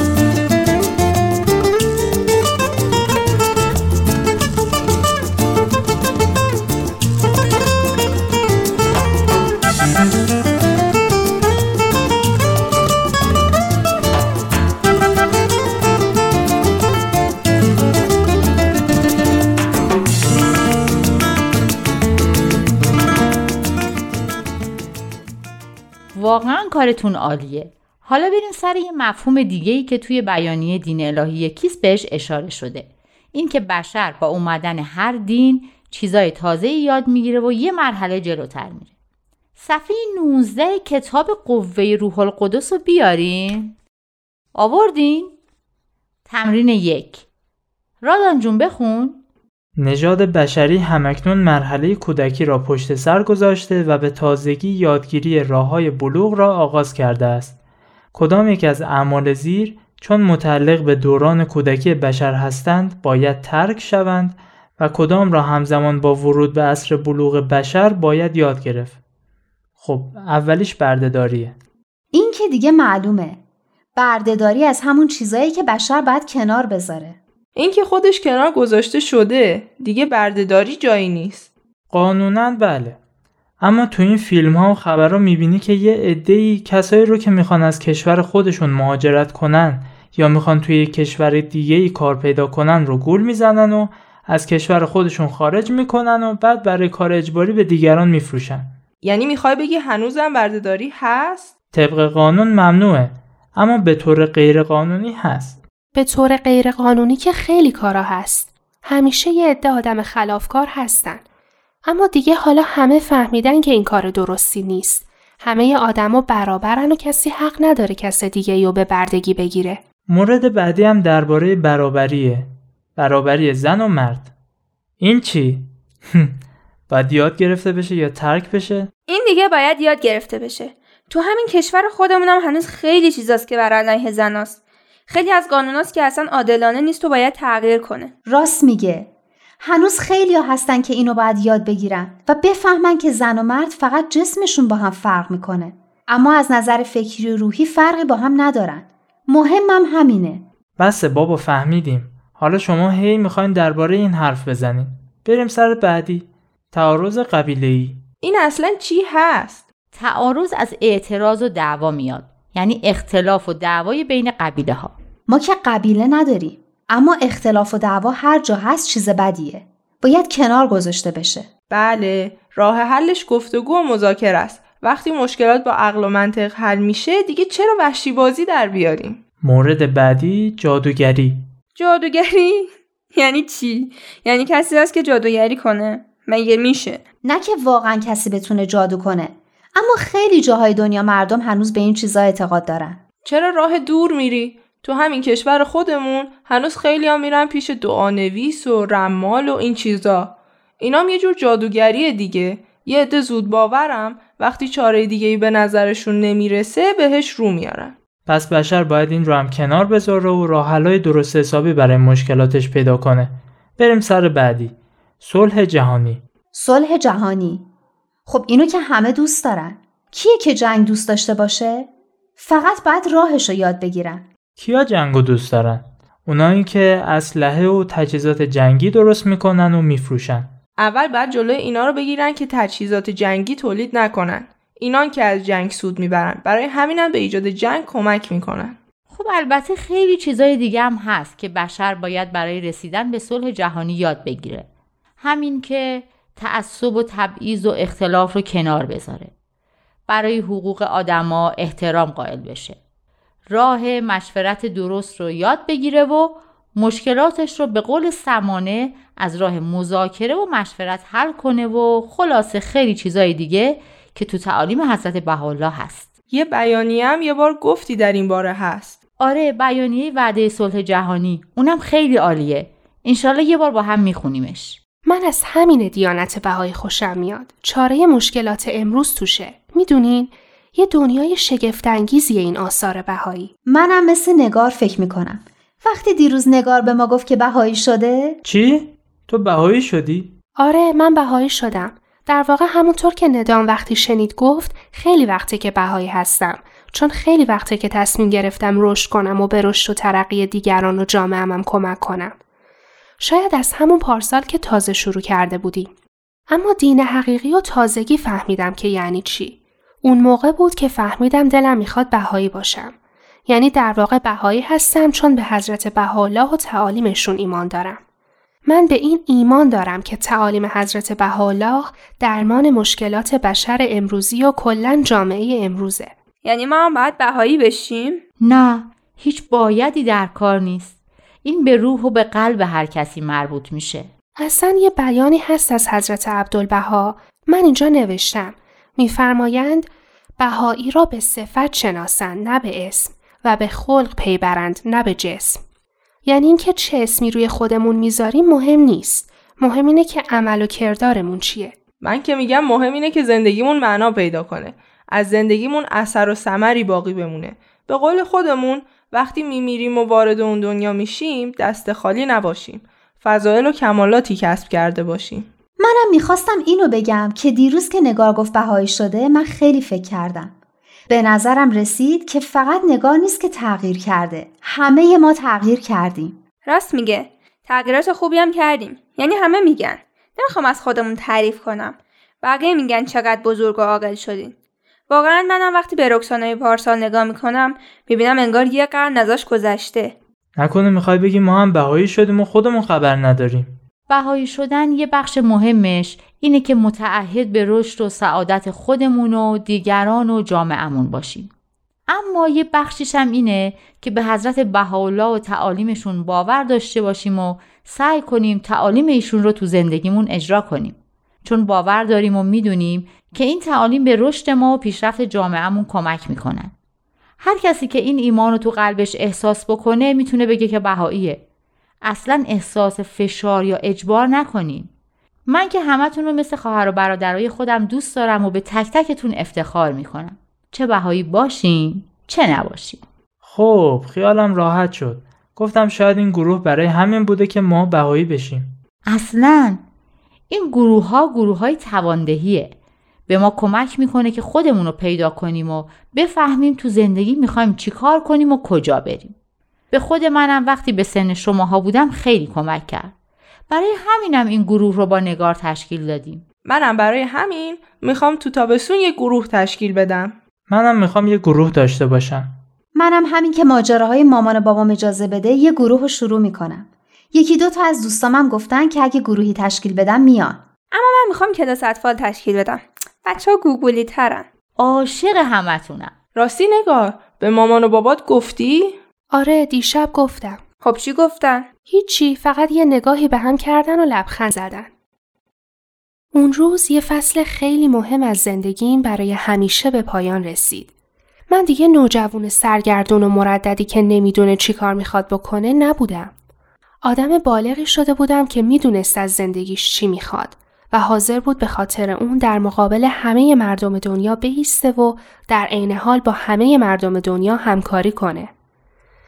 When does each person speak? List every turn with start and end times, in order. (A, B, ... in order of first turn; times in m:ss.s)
0:26.1-0:38.9 A
0:39.6-0:43.8 A
0:44.5-0:45.3 A
0:46.3-0:47.2 A
0:48.0-0:49.2 A
0:49.8-0:57.6 B
0:58.1-1:09.0 B
1:09.8-1:11.6 B
1:12.1-1:13.4 C
1:14.0-1:17.2 C
1:17.6-1:21.5 D
1:21.9-1:23.0 B
1:23.6-1:38.7 B
1:39.0-1:41.5 D
1:41.7-1:45.6 B
1:45.9-1:51.2 E
1:51.9-1:59.8 E
2:00.1-2:04.3 B
2:05.0-2:06.3 B
2:06.9-2:08.9 B
2:09.1-2:18.1 F
2:18.2-2:19.1 C
2:19.6-2:30.4 C
2:30.8-2:38.0 B
2:38.2-2:39.6 D
2:39.9-2:44.9 A
2:45.3-2:51.5 C
2:51.7-2:59.2 D
2:59.4-3:01.5 B
3:01.7-3:07.0 F
3:07.2-3:13.0 C
3:13.2-3:27.9 D
3:28.2-3:36.2 B
3:36.5-3:37.6 C
3:38.3-3:44.2 C
3:44.6-3:50.5 B
3:50.8-3:58.8 D
3:59.1-4:04.7 A
4:05.2-4:09.3 A
4:10.1-4:12.8 A
4:13.5-4:26.1 A
4:26.3-4:29.0 D
4:29.2-4:34.8 A
4:35.0-4:43.5 E
4:43.7-4:48.4 C
4:48.4-4:50.4 B
4:50.6-5:02.3 E
5:03.2-5:05.9 E
5:06.5-5:12.9 E
5:13.5-5:18.0 E
5:18.7-5:26.1 E
5:26.4-5:28.2 F
5:28.4-5:34.1 A
5:34.4-5:39.9 E
5:40.4-5:45.6 E
5:46.2-5:51.7 E
5:52.0-6:05.5 D
6:05.8-6:10.5 C
6:11.1-6:16.4 C
6:16.6-6:24.5 F
6:25.1-6:30.2 F
6:30.6-6:33.8 B
6:34.1-6:41.5 A
6:42.1-6:56.7 A
6:57.4-7:01.4 A
7:02.0-7:04.9 A
7:05.5-7:13.0 A
7:13.4-7:18.8 B
7:19.1-7:19.8 A
7:20.5-7:22.7 A
7:23.3-7:29.3 A
7:29.9-7:33.1 A
7:33.7-7:36.4 A
7:36.6-7:40.3 D
7:40.7-7:42.5 B
7:42.9-7:50.6 C
7:50.9-7:54.5 F
7:54.8-7:56.1 A
7:56.3-7:59.0 D
7:59.3-8:00.6 E
8:00.8-8:01.7 F
8:01.9-8:04.9 E
8:06.3-8:10.9 E
8:11.5-8:16.3 E
8:17.0-8:28.5 E